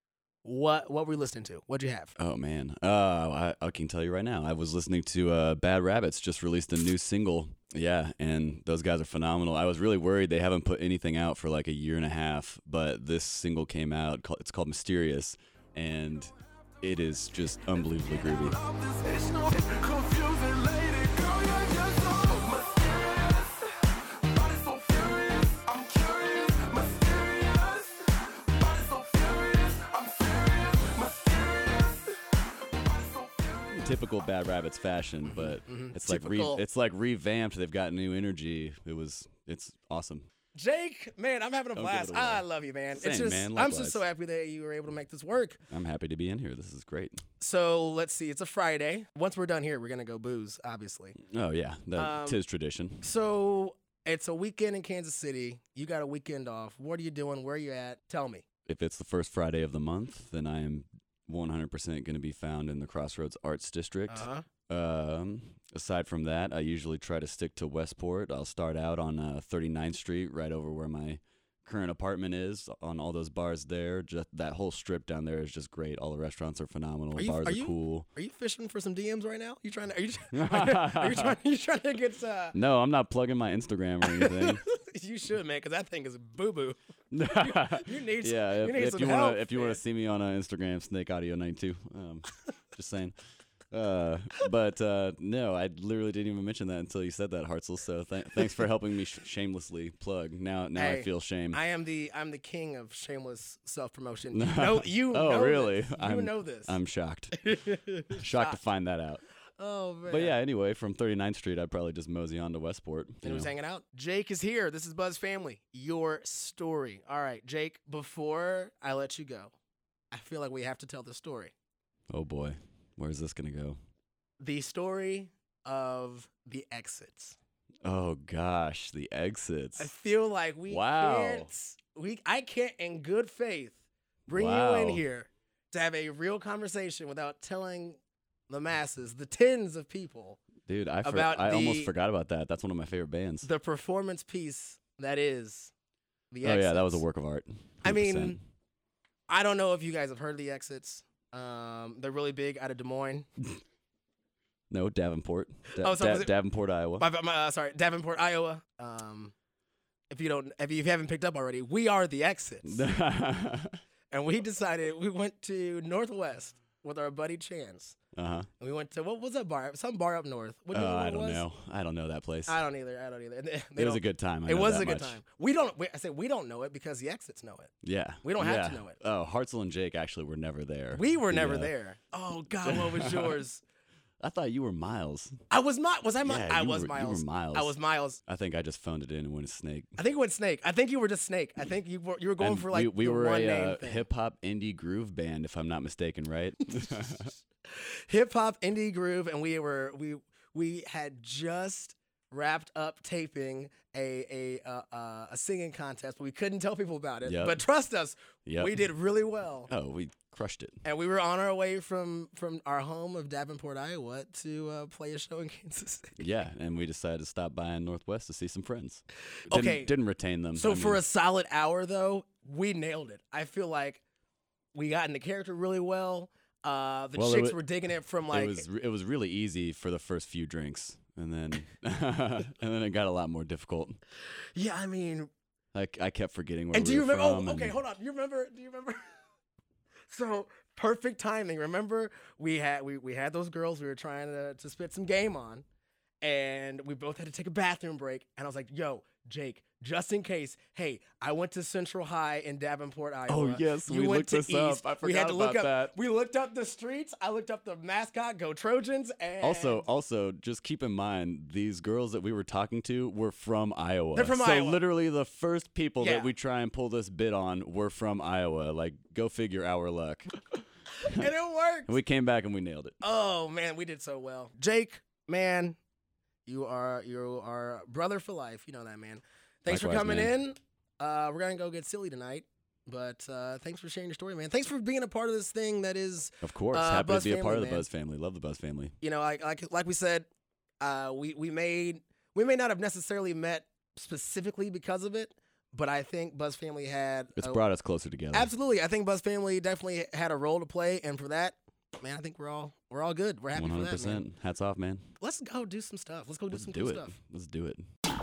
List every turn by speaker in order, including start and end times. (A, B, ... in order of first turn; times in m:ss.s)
0:00.4-0:02.1 A
0:02.2-0:18.6 B
0:18.6-0:23.5 A
0:24.4-0:27.9 A
0:28.8-0:30.3 A
0:33.7-0:40.3 B
0:35.2-0:36.6 A
0:40.5-0:45.6 A
0:41.7-0:44.0 B
0:45.7-0:47.2 B
0:47.4-0:51.2 A
0:51.3-0:53.0 B
0:52.0-0:52.4 A
0:53.0-0:58.4 A
0:58.6-1:18.1 B
1:04.1-1:04.4 A
1:17.2-1:22.6 A
1:20.3-1:21.4 B
1:22.5-1:24.6 B
1:24.1-1:29.8 A
1:27.1-1:33.2 B
1:33.7-1:41.6 B
1:40.7-1:46.8 A
1:44.3-1:47.5 B
1:47.4-1:48.6 A
1:48.1-1:49.2 B
1:49.6-1:50.4 A
1:50.1-1:53.5 B
1:53.2-1:59.5 A
2:00.1-2:01.5 A
2:02.1-2:03.8 B
2:04.4-2:07.4 A
2:07.8-2:09.9 B
2:09.8-2:20.4 A
2:10.7-2:11.5 B
2:14.3-2:15.0 B
2:20.6-2:23.5 B
2:21.0-2:21.9 A
2:23.4-2:25.7 A
2:26.3-2:27.0 A
2:26.4-2:28.4 B
2:27.8-2:28.4 A
2:29.3-2:33.3 A
2:34.7-2:37.1 B
2:35.8-2:36.3 A
2:37.0-2:39.3 A
2:40.1-2:42.9 A
2:42.6-2:43.8 B
2:44.1-2:48.0 A
2:48.1-2:48.5 B
2:48.6-2:51.4 A
2:50.7-2:52.6 B
2:52.5-2:57.7 A
2:53.8-2:55.2 B
2:57.8-3:01.7 B
2:58.2-2:59.0 A
3:00.9-3:03.6 A
3:02.6-3:03.4 B
3:04.2-3:05.4 B
3:05.5-3:08.2 A
3:06.2-3:07.8 B
3:08.3-3:09.9 B
3:10.0-3:14.0 A
3:12.4-3:17.3 B
3:18.1-3:29.7 A
3:27.2-3:27.6 B
3:28.4-3:28.9 B
3:29.7-3:30.8 B
3:30.8-3:36.2 A
3:36.2-3:41.0 B
3:39.5-3:39.9 A
3:40.6-3:44.0 A
3:44.7-3:48.6 A
3:47.1-3:47.6 B
3:48.3-3:54.0 B
3:54.5-3:55.3 A
3:55.7-3:57.8 B
3:56.7-3:59.1 A
4:00.1-4:05.6 A
4:06.2-4:19.8 A
4:13.3-4:15.9 B
4:19.4-4:30.3 B
4:24.1-4:24.8 A
4:26.0-4:26.3 A
4:31.0-4:31.9 A
4:31.9-4:32.9 B
4:33.0-4:35.8 A
4:36.4-4:47.9 A
4:39.6-4:40.4 B
4:46.4-4:48.9 B
4:49.0-4:50.3 A
4:50.8-4:57.6 A
4:57.4-4:58.5 B
4:58.3-5:04.2 A
5:03.5-5:05.0 B
5:05.2-5:07.1 A
5:06.5-5:07.8 B